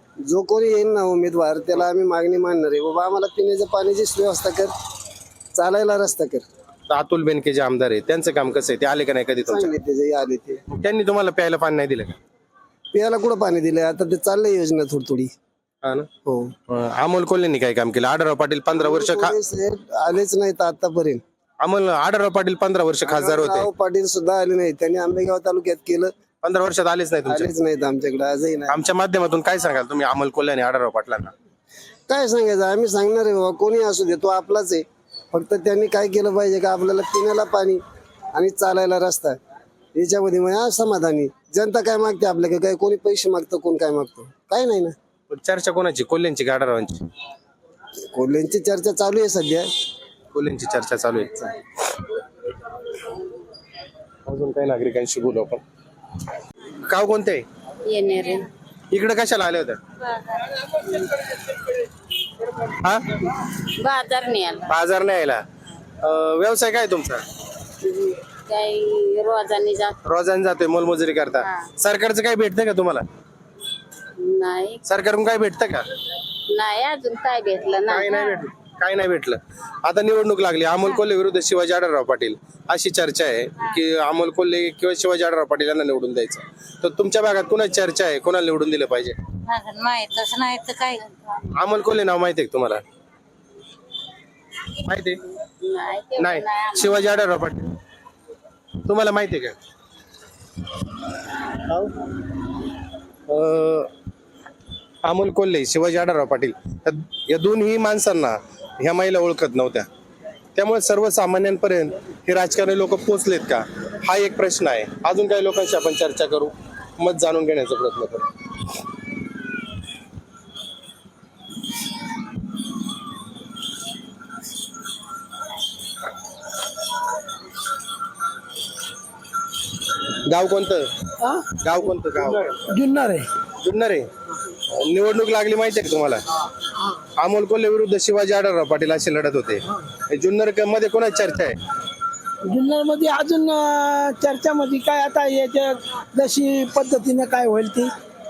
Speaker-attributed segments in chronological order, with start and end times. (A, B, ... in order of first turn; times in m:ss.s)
0:00.2-0:04.7 A
0:05.6-0:06.4 A
0:06.9-0:09.7 B
0:09.5-0:10.6 A
0:10.7-0:12.2 B
0:12.9-0:15.3 A
0:16.2-0:16.5 A
0:16.7-0:19.3 B
0:18.8-0:21.2 A
0:21.6-0:23.7 B
0:23.0-0:26.1 A
0:26.4-0:27.5 B
0:27.3-0:28.8 A
0:28.7-0:31.3 B
0:32.1-0:37.8 A
0:38.3-0:39.4 A
0:39.9-0:45.0 A
0:45.3-0:47.0 B
0:48.1-0:49.7 A
0:50.3-0:51.5 B
0:54.3-0:55.6 B
0:56.9-0:57.4 B
0:57.9-0:58.5 C
0:58.9-0:59.8 B
1:03.8-1:04.7 C
1:04.7-1:05.4 B
1:06.0-1:07.2 B
1:07.9-1:10.0 C
1:10.0-1:13.0 B
1:14.2-1:14.8 C
1:14.8-1:15.9 B
1:16.5-1:18.4 C
1:17.9-1:29.2 B
1:29.5-1:31.1 C
1:31.6-1:32.8 B
1:34.8-1:35.2 B
1:35.6-1:37.3 C
1:36.2-1:37.7 B
1:38.9-1:39.6 B
1:43.3-1:43.9 B
1:45.0-1:49.9 B
1:50.6-1:58.3 B
2:10.3-2:10.8 B
2:11.2-2:11.5 D
2:11.6-2:12.5 B
2:12.1-2:13.3 D
2:13.6-2:14.0 B
2:14.9-2:16.2 B
2:17.2-2:21.6 B
2:22.4-2:27.9 D